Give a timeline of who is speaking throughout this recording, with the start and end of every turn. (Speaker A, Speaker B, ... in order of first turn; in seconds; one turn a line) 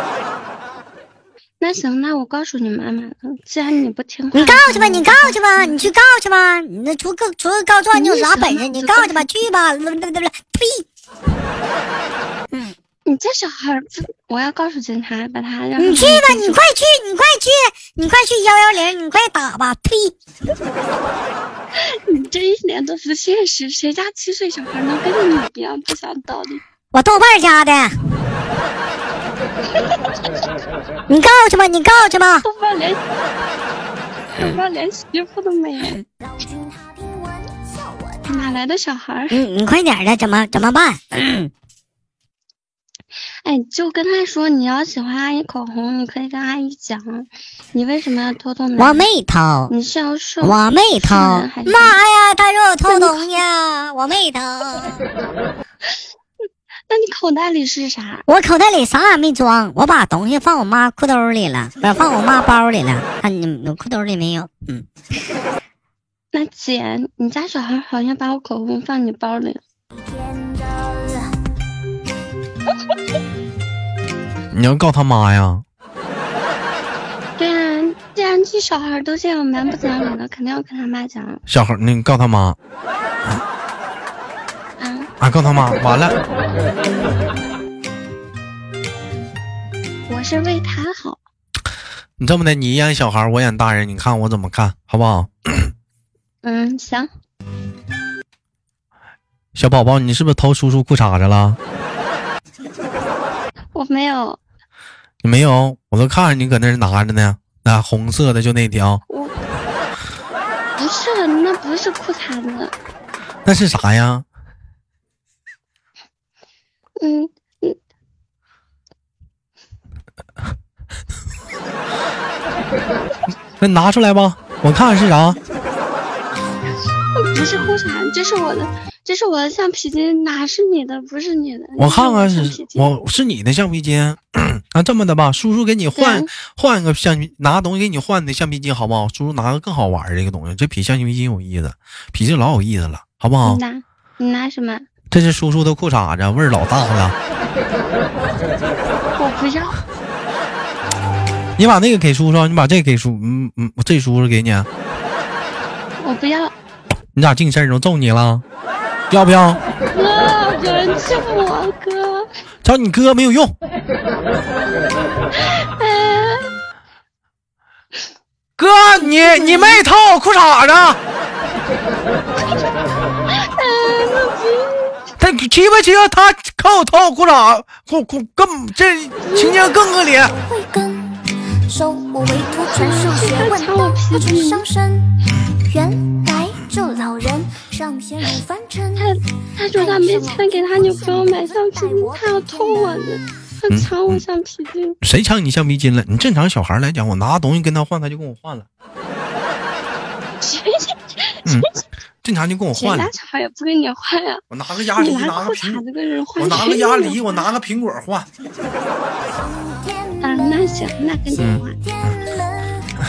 Speaker A: 1.6-5.9
Speaker B: 4.3-10.8
Speaker A: 7.9-9.4
Speaker A: 13.1-16.6
Speaker B: 15.8-20.1
Speaker A: 21.9-26.6
Speaker B: 26.9-27.9
Speaker B: 31.1-32.4
Speaker A: 32.4-33.0
Speaker A: 34.3-36.0
Speaker C: 36.4-37.7
Speaker A: 38.3-39.4
Speaker B: 39.3-41.5
Speaker A: 43.4-49.1
Speaker B: 48.8-49.7
Speaker A: 49.7-52.0
Speaker B: 50.4-55.0
Speaker A: 52.9-53.4
Speaker A: 56.9-58.2
Speaker B: 58.3-64.9
Speaker A: 66.3-69.6
Speaker C: 70.3-71.3
Speaker D: 74.5-75.6
Speaker A: 77.4-81.4
Speaker D: 81.5-82.6
Speaker A: 84.8-85.1
Speaker D: 85.2-86.2
Speaker A: 90.1-91.2
Speaker D: 92.2-95.7
Speaker A: 96.4-97.1
Speaker D: 99.5-101.6
Speaker A: 103.7-104.4
Speaker D: 105.2-109.0
Speaker A: 109.1-109.3
Speaker A: 110.8-112.7
Speaker D: 113.4-114.2
Speaker A: 117.0-117.8
Speaker D: 123.6-125.4
Speaker A: 127.2-132.9
Speaker D: 131.8-143.6
Speaker A: 135.9-136.3
Speaker A: 143.4-144.9
Speaker D: 145.1-147.1
Speaker A: 149.2-149.8
Speaker D: 151.6-154.7
Speaker A: 156.0-156.5
Speaker D: 157.1-158.4
Speaker D: 159.1-159.6
Speaker A: 159.9-162.3
Speaker D: 162.6-163.5
Speaker A: 165.4-166.4
Speaker D: 168.6-171.0
Speaker A: 168.9-169.8
Speaker A: 173.3-175.0
Speaker D: 175.2-180.4
Speaker A: 179.2-179.8
Speaker C: 180.3-189.1
Speaker A: 182.6-184.6
Speaker A: 188.9-195.0
Speaker C: 189.8-193.0
Speaker D: 193.7-194.2
Speaker D: 195.0-198.7
Speaker A: 200.4-201.8
Speaker D: 202.2-203.1
Speaker A: 202.7-204.4
Speaker D: 204.5-205.8
Speaker A: 204.9-207.5
Speaker D: 206.4-208.3
Speaker C: 209.5-210.6
Speaker A: 210.2-211.8
Speaker D: 211.4-211.6
Speaker C: 212.1-212.8